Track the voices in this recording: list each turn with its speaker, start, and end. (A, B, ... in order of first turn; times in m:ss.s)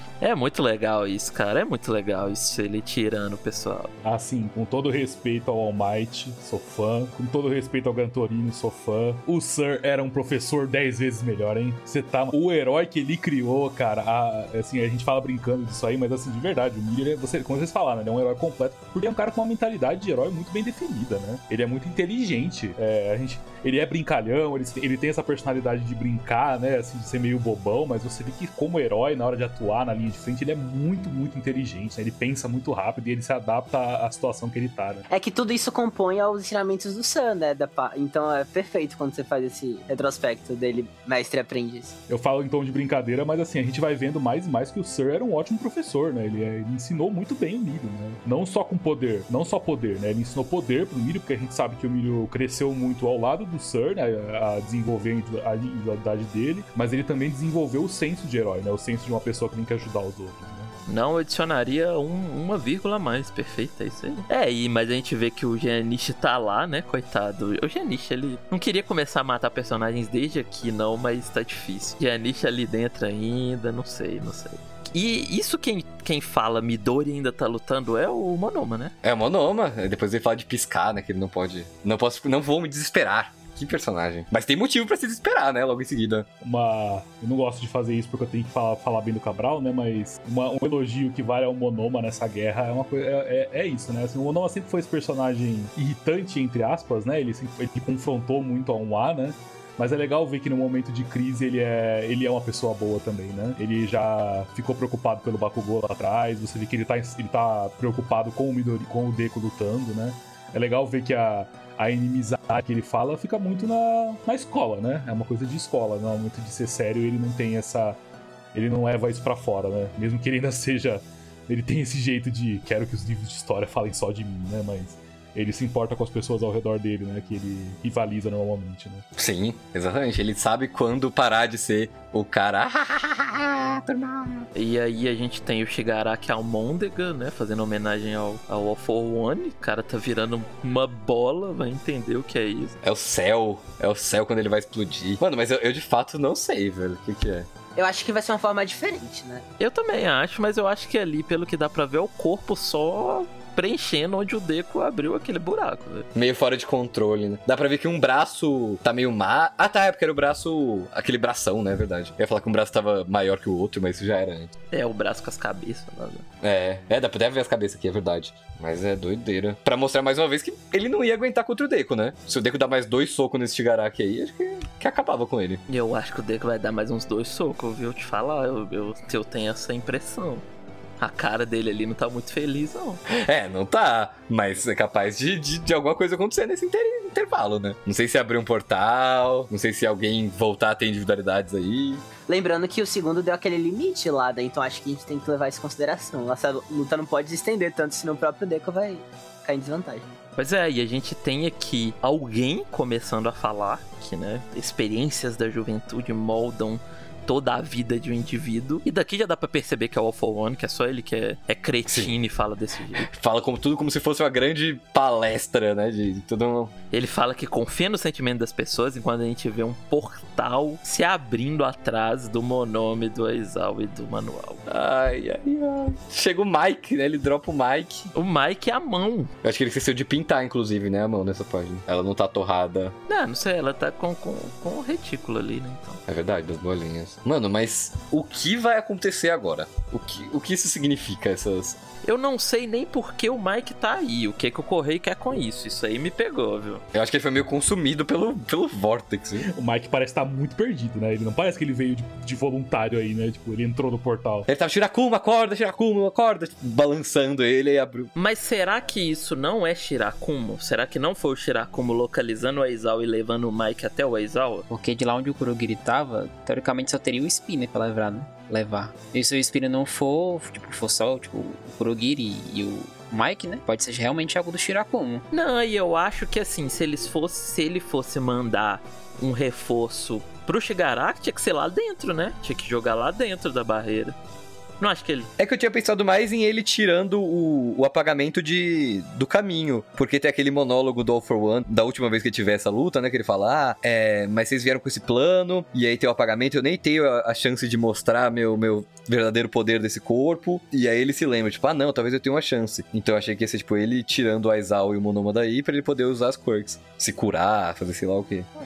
0:00.2-0:03.9 A
0:04.0-0:35.0 B
0:35.1-0:42.0 C
0:42.1-1:00.7 B
1:00.9-1:18.9 A
1:19.0-1:26.3 D
1:26.4-1:58.0 B
1:58.5-2:09.0 B
2:09.2-2:14.5 D
2:14.5-2:22.8 A
2:22.8-2:27.5 D
2:27.8-2:29.4 C
2:29.6-2:36.1 A
2:36.1-2:44.5 D
2:44.7-2:46.2 A
2:46.4-2:55.6 D
2:55.7-3:00.4 A
3:01.0-3:03.0 A
3:03.1-3:12.0 D
3:12.3-3:20.1 C
3:20.4-3:33.1 A
3:31.9-3:32.1 D
3:33.0-3:36.7 D
3:36.9-3:44.6 A
3:44.7-3:48.1 D
3:48.1-3:49.3 A
3:49.4-3:52.9 D
3:53.1-3:56.0 A
3:56.1-4:01.8 D
4:02.0-4:06.8 A
4:06.9-4:09.4 D
4:09.4-4:14.5 B
4:14.5-4:18.1 D
4:18.2-4:24.6 A
4:24.7-4:35.2 E
4:35.3-4:44.2 A
4:44.8-4:45.3 A
4:45.4-5:08.5 D